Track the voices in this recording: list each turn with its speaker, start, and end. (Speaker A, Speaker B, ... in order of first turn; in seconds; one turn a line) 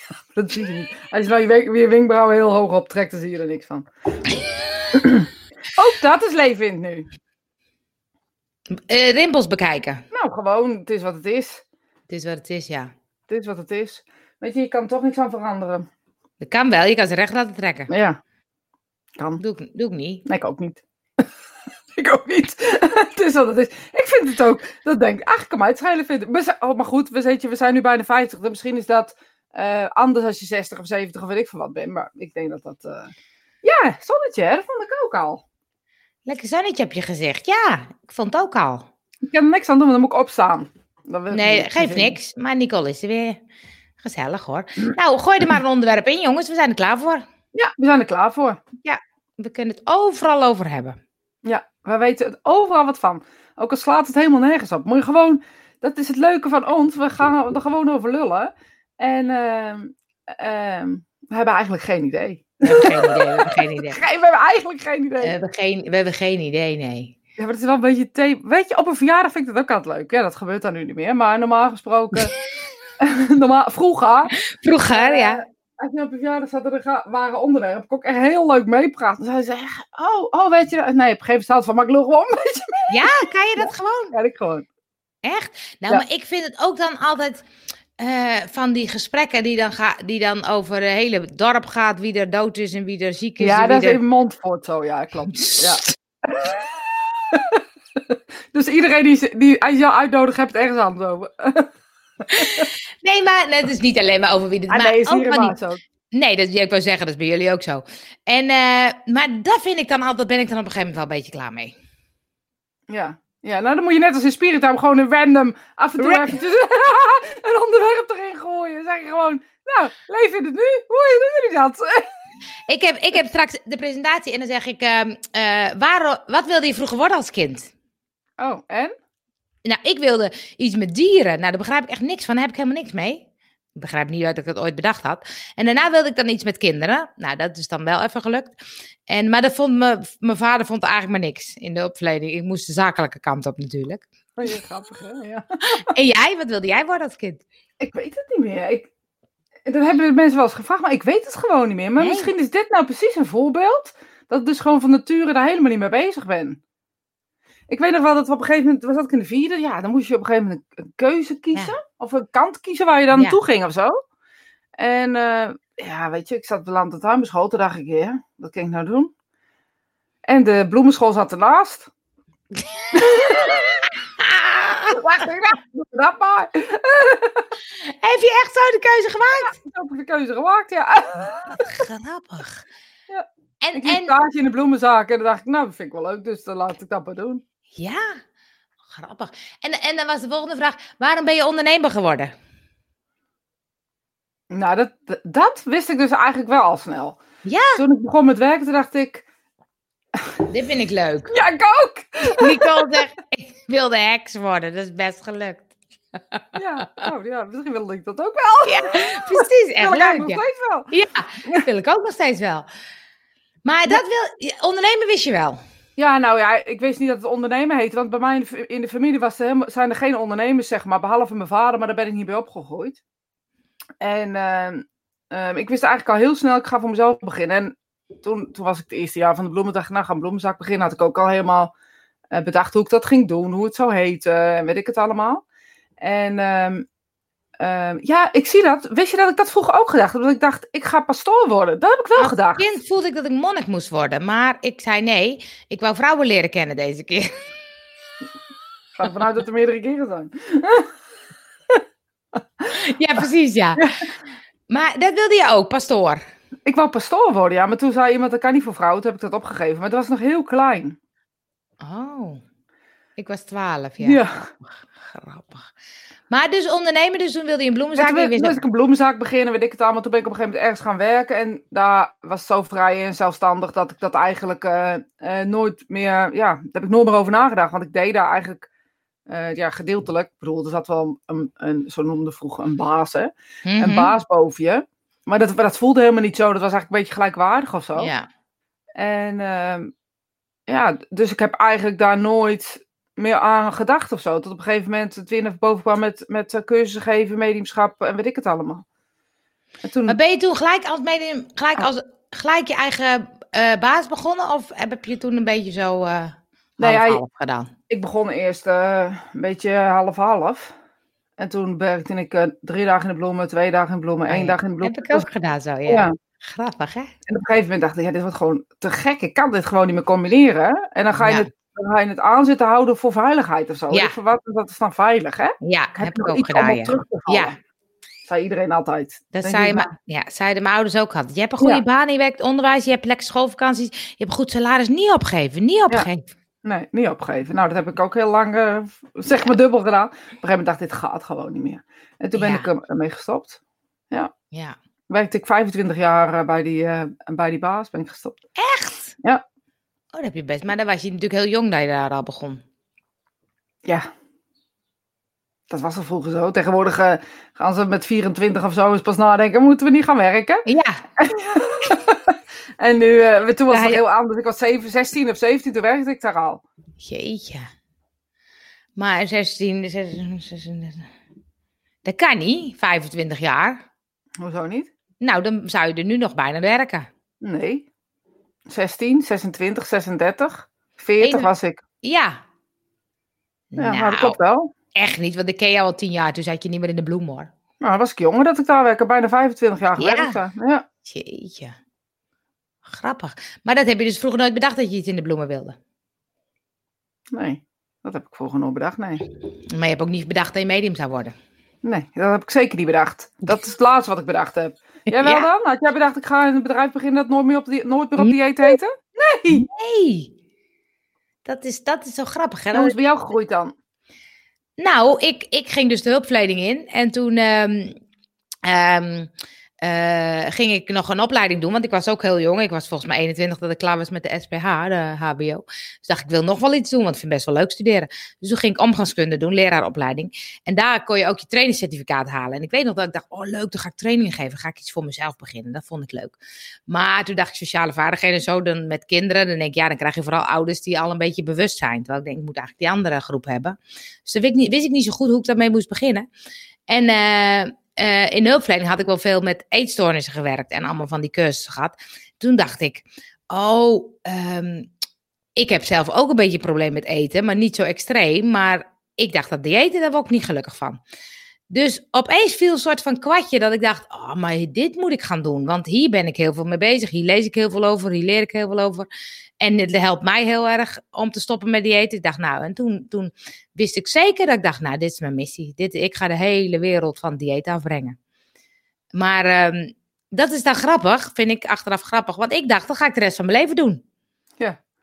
Speaker A: 0.3-3.9
Speaker B: 4.3-5.0
Speaker A: 4.9-7.1
Speaker B: 8.7-10.0
Speaker A: 10.1-11.6
Speaker B: 12.1-12.9
Speaker A: 13.3-15.9
Speaker B: 16.4-17.9
Speaker A: 17.9-18.2
Speaker B: 19.4-20.2
Speaker A: 20.2-21.2
Speaker A: 21.9-35.4
Speaker B: 36.2-38.9
Speaker A: 39.2-42.1
Speaker B: 41.3-43.4
Speaker B: 44.0-47.2
Speaker A: 47.5-48.6
Speaker B: 48.8-51.0
Speaker A: 51.4-65.3
Speaker B: 62.6-64.0
Speaker B: 65.2-67.2
Speaker A: 67.4-72.3
Speaker A: 73.0-74.3
Speaker B: 74.5-75.4
Speaker A: 74.9-84.7
Speaker B: 82.9-84.1
Speaker B: 85.2-87.4
Speaker B: 88.0-94.0
Speaker A: 93.4-101.7
Speaker B: 95.3-95.9
Speaker A: 102.3-102.7
Speaker B: 102.3-105.5
Speaker A: 104.7-105.8
Speaker B: 106.1-111.7
Speaker A: 112.9-122.0
Speaker B: 116.0-116.3
Speaker B: 122.7-127.7
Speaker A: 128.4-128.9
Speaker B: 129.6-133.2
Speaker B: 133.8-138.5
Speaker B: 139.1-144.0
Speaker A: 144.4-145.8
Speaker B: 145.8-147.4
Speaker A: 147.8-148.9
Speaker A: 149.6-156.6
Speaker B: 152.0-152.3
Speaker A: 157.7-164.0
Speaker A: 164.8-169.1
Speaker A: 170.3-171.9
Speaker B: 172.6-175.2
Speaker A: 172.9-173.5
Speaker A: 174.9-177.5
Speaker B: 177.8-179.5
Speaker A: 179.4-181.8
Speaker B: 181.6-182.6
Speaker A: 183.1-187.4
Speaker B: 183.6-184.1
Speaker B: 187.8-188.2
Speaker B: 188.9-192.3
Speaker A: 194.5-197.2
Speaker B: 197.4-197.8
Speaker A: 197.8-199.2
Speaker B: 200.5-201.3
Speaker A: 201.3-203.0
Speaker B: 202.3-205.7
Speaker B: 206.3-207.1
Speaker A: 206.5-210.9
Speaker B: 208.6-212.7
Speaker B: 213.6-215.6
Speaker A: 216.0-223.0
Speaker A: 224.0-231.7
Speaker A: 232.3-235.4
Speaker A: 236.0-236.8
Speaker A: 237.6-242.6
Speaker B: 242.2-247.3
Speaker A: 249.0-250.9
Speaker B: 252.7-253.9
Speaker B: 254.7-256.2
Speaker A: 256.6-261.0
Speaker B: 261.8-262.4
Speaker B: 263.2-265.7
Speaker A: 264.0-264.5
Speaker B: 266.3-268.6
Speaker A: 267.9-278.7
Speaker A: 279.3-288.1
Speaker B: 283.6-284.1
Speaker B: 288.0-288.3
Speaker A: 288.9-289.9
Speaker A: 290.7-298.8
Speaker A: 299.8-300.2
Speaker B: 300.1-307.7
Speaker A: 306.8-307.2
Speaker A: 307.9-310.7
Speaker A: 311.4-315.3
Speaker B: 314.3-317.1
Speaker A: 315.9-316.1
Speaker A: 317.3-327.5
Speaker B: 321.2-321.5
Speaker B: 325.6-327.5
Speaker A: 328.3-329.9
Speaker B: 329.3-336.3
Speaker A: 336.6-343.6
Speaker B: 342.3-342.7
Speaker A: 345.1-348.4
Speaker B: 348.6-349.1
Speaker B: 350.1-352.6
Speaker A: 355.7-360.6
Speaker B: 360.7-361.0
Speaker A: 361.2-366.6
Speaker B: 363.7-364.0
Speaker B: 367.0-367.7
Speaker B: 368.9-371.1
Speaker B: 372.0-373.8
Speaker A: 374.4-374.9
Speaker B: 375.2-377.1
Speaker A: 377.4-377.9
Speaker A: 378.7-381.8
Speaker B: 381.2-381.5
Speaker B: 382.0-382.4
Speaker B: 383.7-384.4
Speaker A: 383.8-384.7
Speaker B: 384.9-387.5
Speaker A: 387.8-390.8
Speaker B: 390.0-390.4
Speaker B: 391.0-391.8
Speaker B: 392.9-395.8
Speaker A: 397.3-399.2
Speaker B: 399.7-401.3
Speaker A: 401.8-409.7
Speaker B: 405.1-405.5
Speaker B: 408.2-408.7
Speaker B: 409.5-410.3
Speaker B: 411.4-413.0
Speaker A: 412.7-413.7
Speaker B: 414.8-418.0
Speaker B: 418.6-419.3
Speaker B: 419.8-436.4
Speaker B: 436.9-446.3
Speaker B: 446.9-454.9
Speaker B: 455.6-461.0
Speaker B: 461.7-469.1
Speaker B: 469.6-478.2
Speaker B: 479.1-484.0